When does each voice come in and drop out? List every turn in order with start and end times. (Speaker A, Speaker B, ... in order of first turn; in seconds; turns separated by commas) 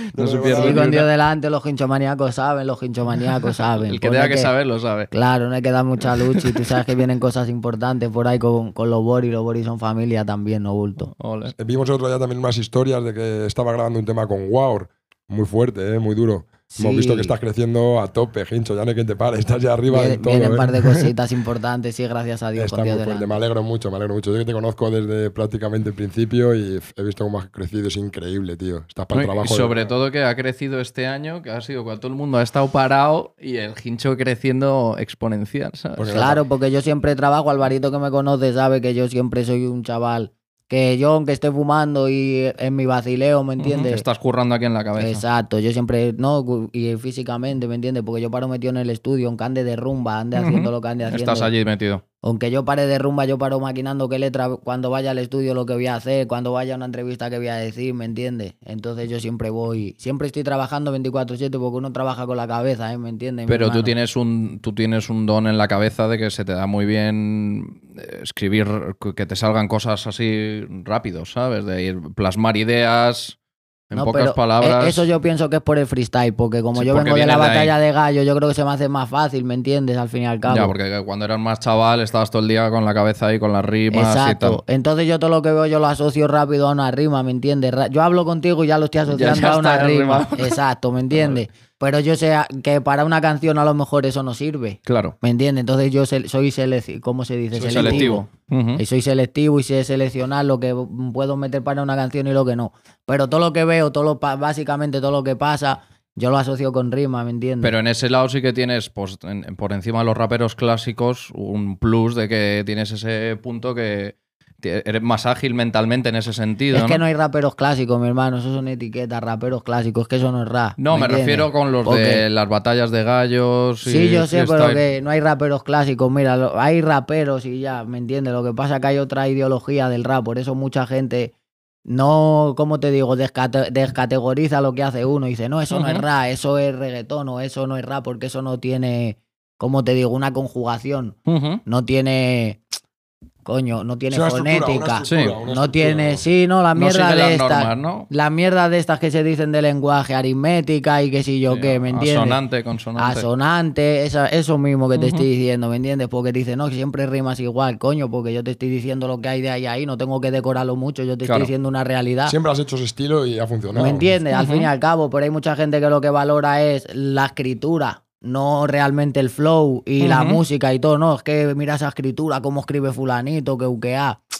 Speaker A: 0.1-0.9, Speaker B: 0.1-1.1, Speaker C: 0.5-4.5, Speaker B: 3.8-5.1, Speaker C: 5.1-11.1, Speaker B: 6.2-6.7, Speaker B: 11.0-11.5, Speaker A: 11.6-21.1, Speaker C: 16.7-17.4, Speaker C: 19.9-23.3, Speaker A: 22.5-29.9, Speaker B: 29.1-36.2, Speaker A: 36.0-36.4, Speaker C: 36.1-44.0, Speaker B: 43.6-45.2, Speaker C: 45.0-51.5, Speaker B: 50.3-52.0, Speaker C: 52.2-63.9, Speaker B: 63.5-73.3, Speaker B: 73.9-75.1, Speaker C: 73.9-80.8, Speaker B: 76.7-77.8, Speaker B: 80.5-84.6, Speaker C: 83.9-107.7, Speaker B: 89.1-90.6, Speaker B: 91.1-91.4, Speaker B: 94.8-95.2, Speaker A: 97.5-98.2, Speaker B: 97.7-98.8, Speaker B: 107.6-117.0, Speaker C: 116.7-122.2, Speaker B: 120.8-124.8, Speaker C: 123.8-131.3, Speaker C: 131.9-142.6, Speaker B: 135.7-136.0, Speaker B: 141.2-141.6, Speaker C: 143.4-152.4, Speaker A: 144.1-146.2, Speaker B: 145.0-145.4, Speaker B: 146.7-148.1, Speaker B: 151.5-153.2, Speaker C: 153.0-162.3, Speaker B: 154.9-155.2, Speaker B: 161.2-161.5, Speaker A: 162.2-164.1, Speaker C: 163.7-174.2, Speaker B: 164.3-164.7, Speaker B: 170.0-170.4